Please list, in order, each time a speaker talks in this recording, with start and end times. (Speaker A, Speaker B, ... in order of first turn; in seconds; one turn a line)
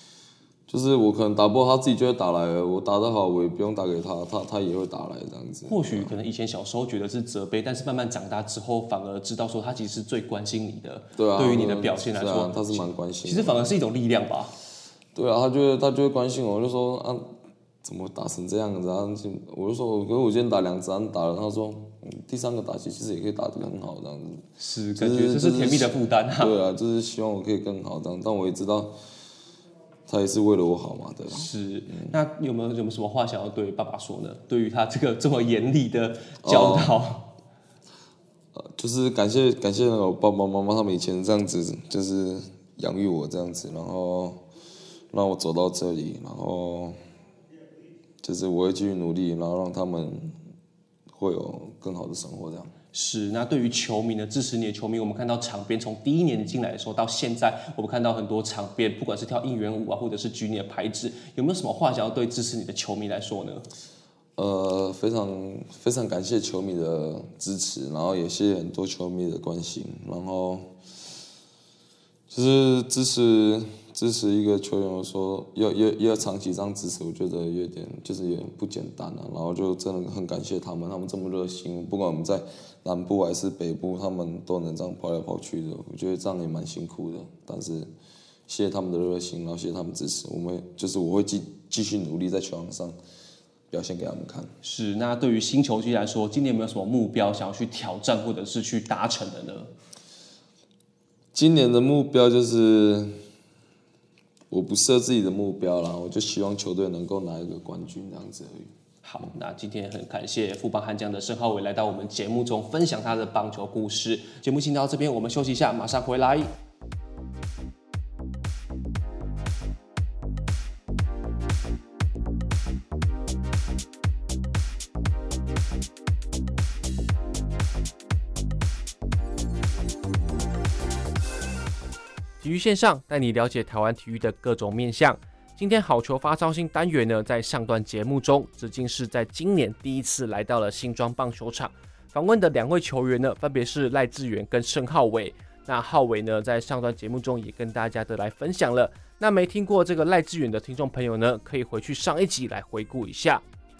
Speaker A: 0.7-6.1
Speaker B: 5.7-14.5
Speaker A: 11.1-13.6
Speaker A: 15.1-28.9
Speaker B: 24.6-26.5
Speaker A: 30.1-32.1
Speaker B: 31.3-37.3
Speaker A: 36.4-37.0
Speaker A: 38.5-44.4
Speaker A: 45.1-47.0
Speaker A: 48.2-50.4
Speaker A: 51.1-52.7
Speaker B: 52.9-63.7
Speaker A: 64.3-70.7
Speaker A: 72.3-87.9
Speaker A: 88.5-93.0
Speaker A: 93.7-94.5
Speaker B: 94.6-99.7
Speaker A: 101.3-103.2
Speaker A: 104.5-108.7
Speaker B: 109.0-116.5
Speaker B: 132.4-153.4